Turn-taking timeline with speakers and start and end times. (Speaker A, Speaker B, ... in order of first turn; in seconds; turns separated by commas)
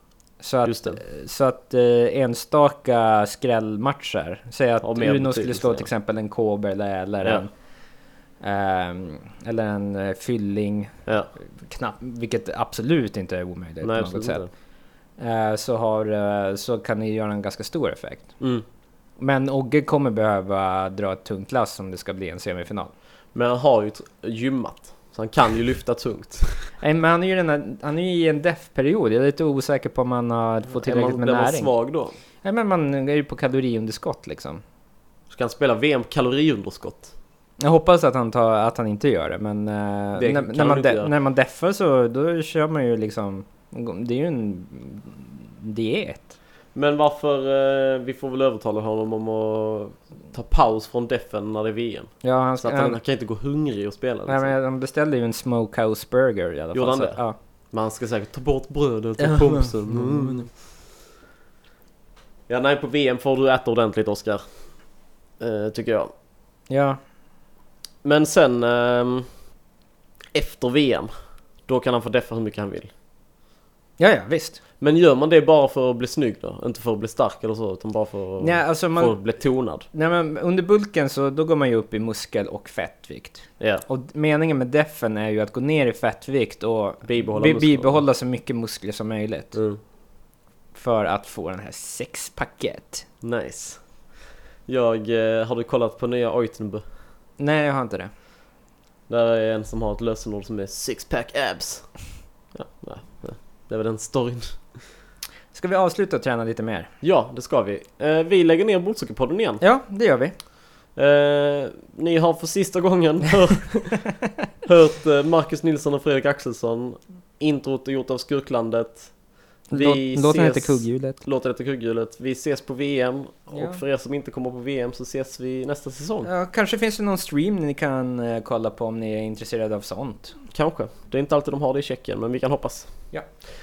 Speaker A: 0.4-7.5, Speaker B: 0.7-1.0, Speaker B: 4.8-5.9, Speaker A: 8.4-14.4, Speaker B: 11.1-11.3, Speaker B: 13.8-14.5, Speaker A: 15.2-18.4, Speaker B: 18.4-18.6, Speaker A: 19.2-22.9, Speaker B: 23.3-26.7, Speaker A: 26.8-31.7, Speaker B: 30.7-32.2, Speaker A: 32.4-34.6, Speaker B: 35.3-37.1, Speaker A: 37.6-46.3, Speaker B: 40.1-41.1, Speaker B: 46.7-54.5, Speaker A: 52.2-53.0, Speaker A: 54.3-57.4, Speaker B: 56.7-60.5, Speaker A: 59.2-60.5, Speaker B: 62.5-64.4, Speaker B: 65.4-66.1, Speaker A: 66.7-67.0, Speaker B: 68.0-69.3, Speaker B: 70.3-71.1, Speaker B: 71.7-72.9, Speaker A: 74.0-74.6, Speaker B: 74.8-79.8, Speaker A: 78.4-79.2, Speaker A: 79.8-89.6, Speaker B: 83.6-83.8, Speaker B: 87.0-88.0, Speaker B: 89.5-89.8, Speaker A: 90.7-93.0, Speaker B: 93.2-93.9, Speaker B: 94.7-96.8, Speaker A: 97.4-98.1, Speaker B: 99.1-102.0, Speaker B: 102.5-104.8, Speaker A: 105.5-106.9, Speaker B: 107.0-109.6, Speaker A: 109.6-110.3, Speaker B: 110.9-114.1, Speaker B: 114.6-119.1, Speaker A: 119.7-121.2, Speaker B: 119.7-126.3, Speaker A: 123.5-123.8, Speaker A: 126.2-130.4, Speaker B: 130.5-132.9